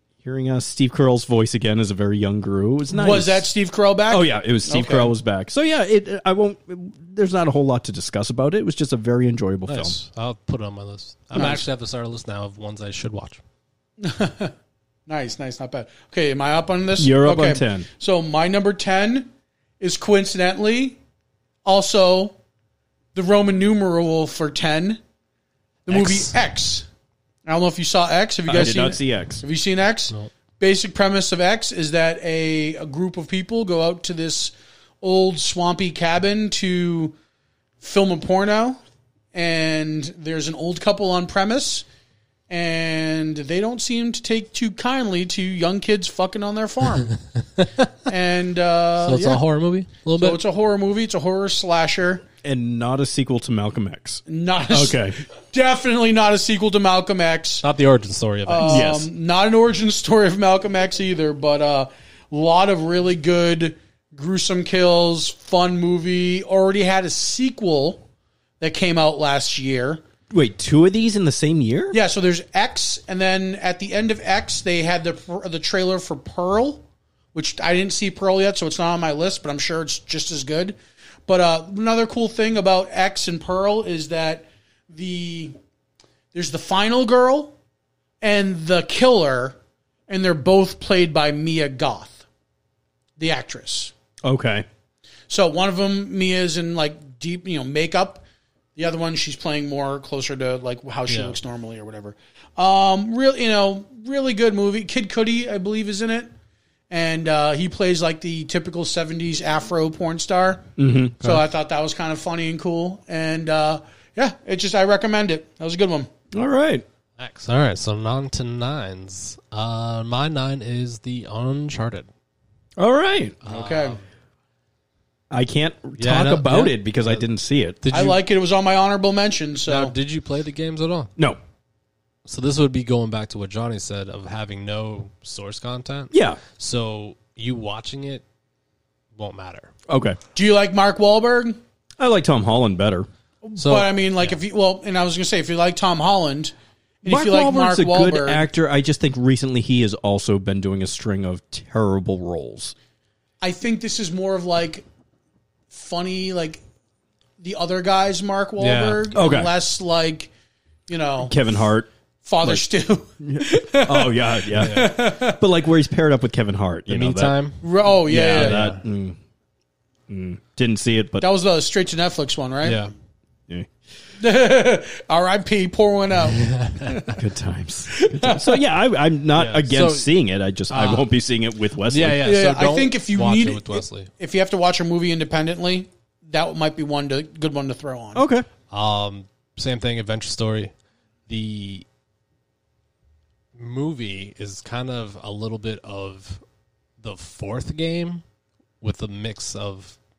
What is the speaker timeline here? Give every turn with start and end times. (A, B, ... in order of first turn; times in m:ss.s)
0:00.2-0:03.5 A
0:02.9-0:05.1 B
0:04.1-0:10.0 A
0:09.7-0:13.4 C
0:11.3-0:11.6 B
0:14.0-0:14.5 B
0:15.1-0:21.0 B
0:17.0-0:17.9 A
0:21.6-0:22.4 B
0:23.1-0:25.0 B
0:25.9-0:26.9 B
0:25.9-0:26.3 C
0:27.4-0:37.2 B
0:28.5-0:29.4 A
0:37.8-0:38.8 B
0:39.3-0:41.8 B
0:42.5-0:47.2 B
0:47.6-0:47.9 C
0:48.1-0:49.4 B
0:49.0-0:50.4 C
0:50.2-0:52.2 B
0:52.4-0:55.2 A
0:54.3-0:57.6 B
0:57.6-0:58.9 C
0:58.5-1:08.0 B
0:58.6-0:59.1 A
1:08.6-1:10.0 B
1:10.3-1:12.0 A
1:11.9-1:16.8 B
1:17.3-1:25.5 B
1:26.3-1:27.5 B
1:28.2-1:29.6 B
1:30.1-1:32.2 B
1:33.2-1:33.9 B
1:34.2-1:34.7 A
1:35.3-1:38.2 B
1:38.8-1:46.3 B
1:41.1-1:41.4 C
1:46.9-1:50.7 B
1:50.8-1:51.4 A
1:51.2-1:56.1 B
1:56.3-1:56.8 A
1:57.2-2:02.1 C
2:02.8-2:03.4 A
2:03.4-2:04.0 C
2:03.5-2:04.0 B
2:05.3-2:07.8 A
2:06.0-2:07.2 C
2:07.8-2:08.2 C
2:07.9-2:09.9 B
2:09.7-2:11.1 C
2:12.3-2:18.2 C
2:16.1-2:16.4 A
2:19.2-2:19.7 C
2:19.9-2:20.2 A
2:20.4-2:21.6 B
2:22.0-2:23.1 A
2:23.4-2:28.4 B
2:23.6-2:24.4 C
2:27.0-2:32.8 A
2:33.4-2:34.9 B
2:35.7-2:36.6 B
2:37.4-2:40.3 B
2:38.6-2:39.1 C
2:39.1-2:39.5 A
2:40.9-2:41.4 B
2:41.2-2:41.9 A
2:42.2-2:45.4 B
2:43.2-2:47.4 A
2:44.6-2:44.9 C
2:46.9-2:47.6 C
2:47.6-2:48.6 B
2:48.1-2:49.2 A
2:48.2-2:48.8 C
2:50.1-2:51.3 A
2:51.2-2:52.8 B
2:52.6-2:52.9 C
2:54.2-2:57.2 B
2:56.3-2:57.0 C
2:57.1-3:02.3 A
2:57.9-2:58.6 B
2:59.4-3:00.1 C
3:00.7-3:01.1 C
3:01.8-3:04.1 C
3:02.2-3:08.2 B
3:08.1-3:08.5 A
3:08.7-3:10.7 C
3:11.3-3:11.9 C
3:13.6-3:16.4 C
3:17.0-3:18.2 C
3:18.8-3:20.0 C